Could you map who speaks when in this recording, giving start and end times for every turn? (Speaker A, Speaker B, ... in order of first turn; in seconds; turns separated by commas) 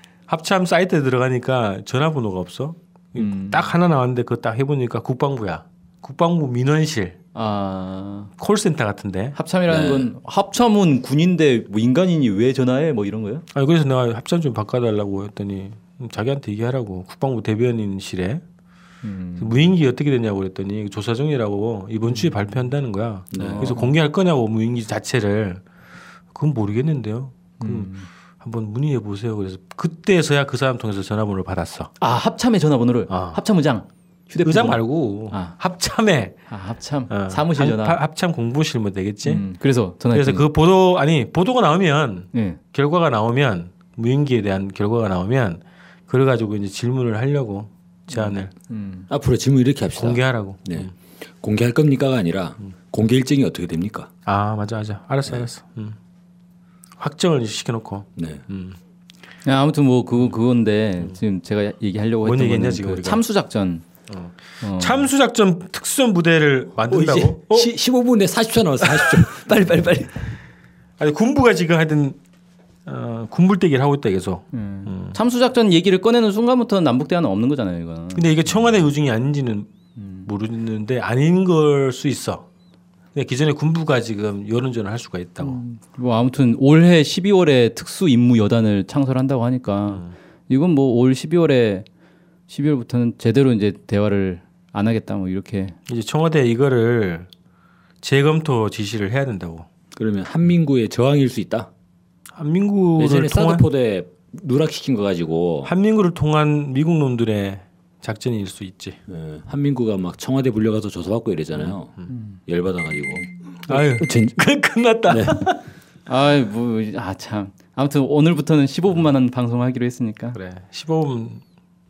Speaker A: 0.3-7.2, Speaker B: 3.1-3.7, Speaker B: 7.3-8.3, Speaker A: 8.4-9.4, Speaker B: 9.3-13.5, Speaker C: 9.7-10.1, Speaker A: 13.5-18.4, Speaker B: 19.0-19.7, Speaker A: 19.4-25.6, Speaker B: 22.1-22.6, Speaker C: 23.3-23.7, Speaker B: 23.4-23.9, Speaker A: 26.3-31.9, Speaker B: 27.6-28.1, Speaker B: 32.0-35.5, Speaker A: 33.1-33.4, Speaker A: 34.4-36.4, Speaker B: 36.5-38.0, Speaker A: 37.1-39.5, Speaker B: 39.2-40.5, Speaker A: 40.1-48.5, Speaker B: 42.3-42.6, Speaker B: 48.7-49.1, Speaker C: 49.1-50.9, Speaker A: 50.0-50.9, Speaker C: 51.4-54.1, Speaker A: 54.3-56.0, Speaker A: 57.0-58.8, Speaker C: 58.2-58.4, Speaker B: 59.4-63.9, Speaker A: 62.2-63.2, Speaker A: 64.1-67.7, Speaker B: 64.6-65.1, Speaker C: 66.9-70.3, Speaker A: 68.8-69.6, Speaker A: 71.0-72.2, Speaker A: 72.9-75.2, Speaker B: 74.5-78.6, Speaker A: 78.1-79.7, Speaker B: 80.0-80.3, Speaker A: 80.2-82.5, Speaker A: 83.1-85.6, Speaker B: 85.4-91.9, Speaker A: 89.9-90.1, Speaker B: 92.5-95.8, Speaker A: 95.9-97.3, Speaker A: 98.0-99.7, Speaker C: 100.0-101.7, Speaker A: 102.3-103.7, Speaker C: 103.0-105.7, Speaker A: 105.6-109.0, Speaker C: 109.1-112.0, Speaker A: 111.6-112.1, Speaker B: 112.1-112.4, Speaker C: 112.5-114.4, Speaker A: 113.7-115.6, Speaker C: 115.1-115.4, Speaker B: 116.1-120.4, Speaker A: 120.3-121.4